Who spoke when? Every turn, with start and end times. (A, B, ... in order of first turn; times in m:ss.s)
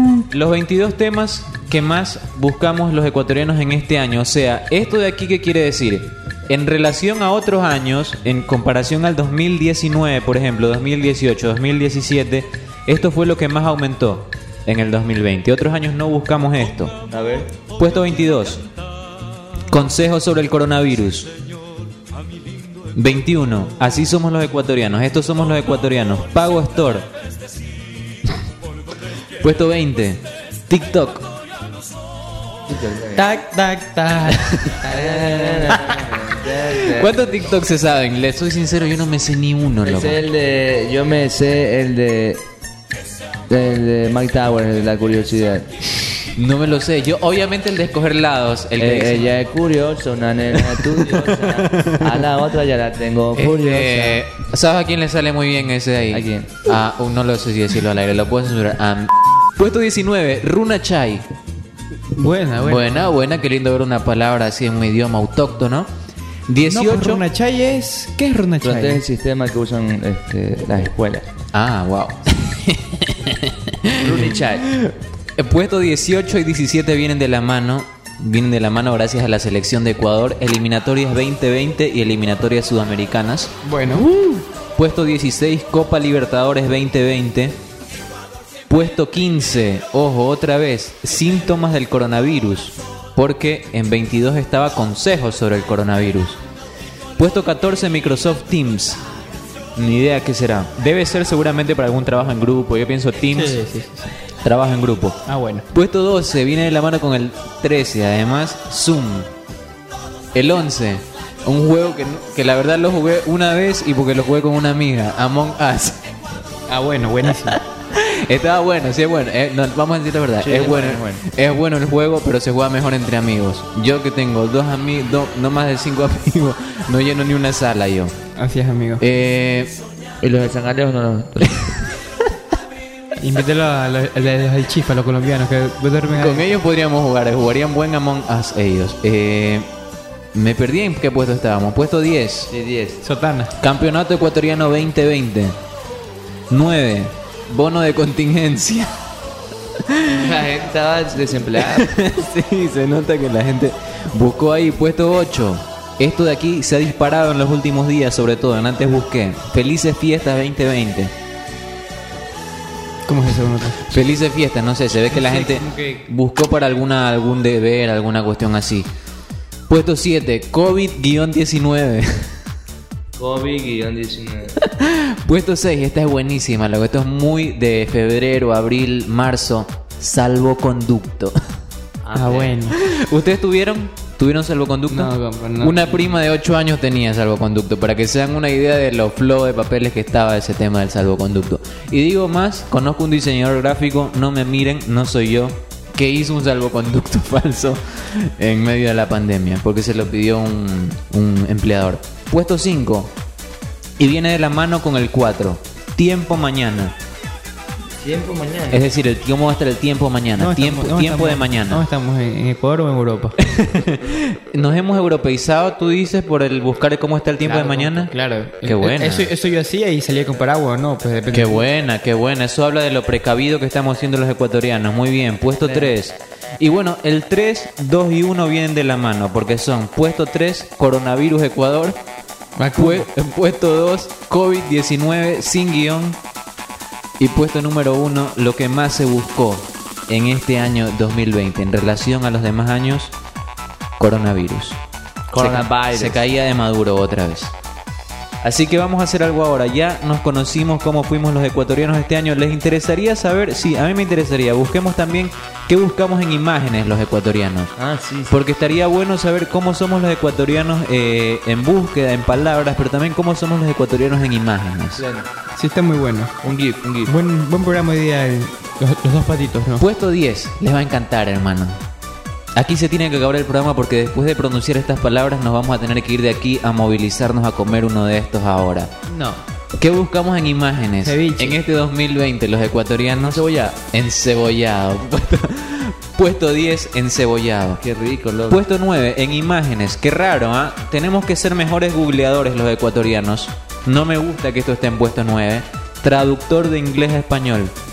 0:00.2-0:16.9 A
0:17.1-0:17.5 B
0:17.8-0:18.6 A
0:19.7-0:21.3 A
0:23.0-0:27.1 A
0:29.4-0:31.3 A
0:32.7-0:33.3 B
0:33.2-0:35.8 C
0:34.3-0:34.8 A
0:34.8-0:37.3 B
0:36.7-0:40.2 A
0:39.8-0:42.4 B
0:43.5-0:45.7 B
0:46.3-0:49.3 A
0:48.8-0:54.2 B
0:50.6-0:52.2 A
0:53.3-1:01.2 A
0:56.1-0:56.5 B
1:02.1-1:03.1 C
1:02.6-1:05.9 A
1:06.5-1:07.2 A
1:06.7-1:09.0 C
1:08.6-1:11.2 B
1:11.5-1:23.5 A
1:14.0-1:14.6 B
1:23.6-1:24.4 C
1:24.7-1:27.5 A
1:28.7-1:36.4 A
1:37.2-1:39.0 A
1:39.8-1:43.6 A
1:43.3-1:44.1 C
1:44.4-1:45.2 A
1:45.2-1:45.6 C
1:45.7-1:49.3 A
1:50.3-1:56.0 A
1:56.7-1:57.6 C
1:57.4-2:08.2 A
2:00.4-2:01.2 B
2:08.4-2:09.0 C
2:09.0-2:09.7 A
2:10.2-2:11.7 B
2:13.2-2:16.5 C
2:16.1-2:19.7 A
2:20.3-2:22.5 A
2:22.5-2:23.0 B
2:23.0-2:23.5 C
2:23.6-2:25.6 A
2:26.5-2:28.9 A
2:29.8-2:30.3 A
2:30.2-2:31.9 B
2:31.6-2:41.1 A
2:43.0-2:43.9 C
2:43.9-2:48.9 A
2:45.1-2:46.0 C
2:49.7-2:52.2 A
2:53.2-2:54.6 B
2:54.6-3:01.3 A
3:02.0-3:02.5 B
3:02.1-3:02.8 C
3:02.7-3:23.1 A
3:04.9-3:06.0 C
3:24.0-3:26.9 A
3:28.0-3:28.8 B
3:28.7-3:31.8 A
3:30.4-3:33.4 C
3:33.4-3:38.1 A
3:37.4-3:41.6 C
3:38.6-3:39.3 A
3:41.3-3:52.0 A
3:45.6-3:46.0 B
3:52.6-3:53.0 C
3:52.7-3:56.2 A
3:57.2-4:03.1 A
4:04.0-4:04.8 A
4:05.3-4:06.2 B
4:05.3-4:07.5 A
4:08.4-4:17.7 A
4:17.8-4:18.4 B
4:18.3-4:25.0 A
4:25.0-4:25.3 B
4:25.5-4:26.3 C
4:26.4-4:27.1 B
4:27.0-4:29.8 C
4:29.8-4:31.8 A
4:32.6-4:39.0 A
4:39.1-4:39.4 C
4:39.8-4:47.8 A
4:41.0-4:41.6 C
4:43.2-4:43.8 B
4:47.8-4:48.6 B
4:48.5-4:57.7 A